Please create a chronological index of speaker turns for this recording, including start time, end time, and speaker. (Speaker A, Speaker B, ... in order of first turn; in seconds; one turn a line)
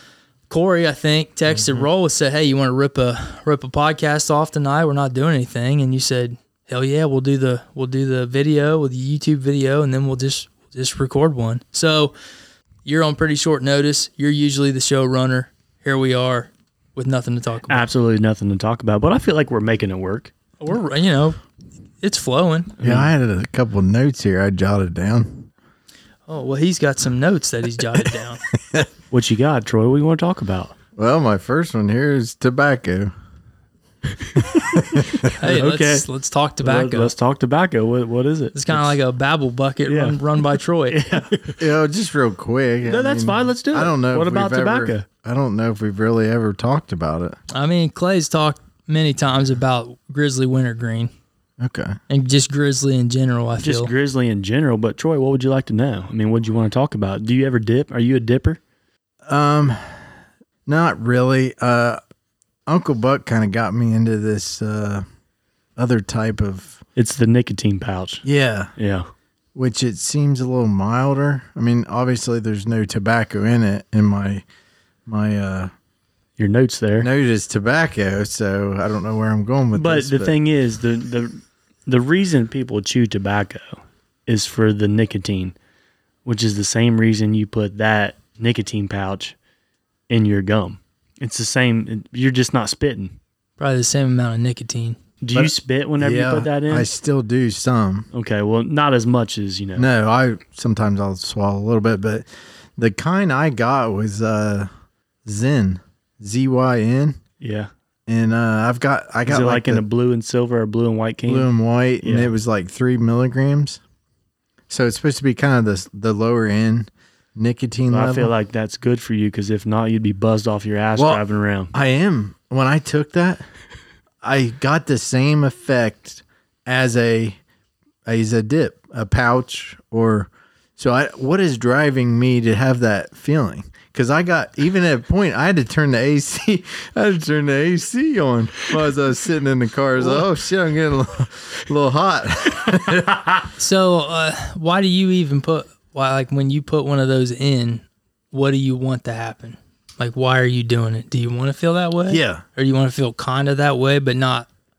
Speaker A: 0.5-12.1
Speaker A: 12.8-17.9
Speaker B: 17.7-20.3
Speaker A: 20.6-21.4
Speaker A: 22.0-22.7
Speaker B: 22.8-23.1
Speaker C: 22.8-25.5
Speaker A: 26.3-28.4
Speaker C: 28.5-28.9
Speaker B: 29.1-30.7
Speaker C: 30.9-33.1
Speaker C: 34.5-35.2
Speaker B: 35.0-36.0
Speaker A: 35.4-37.1
Speaker B: 36.6-39.0
Speaker A: 38.5-41.0
Speaker B: 39.9-40.2
Speaker B: 40.9-41.6
Speaker C: 41.6-47.4
Speaker B: 42.8-45.0
Speaker A: 47.5-51.1
Speaker C: 51.6-52.0
Speaker A: 52.1-53.9
Speaker B: 53.6-58.6
Speaker C: 59.3-60.0
Speaker C: 60.6-62.0
Speaker C: 62.7-65.0
Speaker C: 65.8-66.8
Speaker B: 67.0-68.2
Speaker C: 68.2-68.7
Speaker B: 68.8-69.1
Speaker C: 69.5-74.4
Speaker C: 75.1-75.7
Speaker B: 76.4-77.1
Speaker C: 77.0-80.3
Speaker B: 79.7-85.5
Speaker B: 86.2-89.3
Speaker B: 90.1-93.1
Speaker A: 93.6-95.0
Speaker B: 95.2-96.9
Speaker C: 95.3-98.1
Speaker B: 98.1-99.9
Speaker C: 99.8-104.7
Speaker C: 105.2-107.2
Speaker B: 107.4-107.7
Speaker C: 108.1-109.8
Speaker B: 109.3-111.5
Speaker C: 111.3-113.8
Speaker B: 112.0-112.3
Speaker C: 114.7-118.3
Speaker B: 117.9-121.7
Speaker C: 121.0-121.2
Speaker C: 121.7-123.4
Speaker C: 124.2-127.4
Speaker C: 128.1-143.2
Speaker A: 143.6-154.5
Speaker C: 152.1-152.4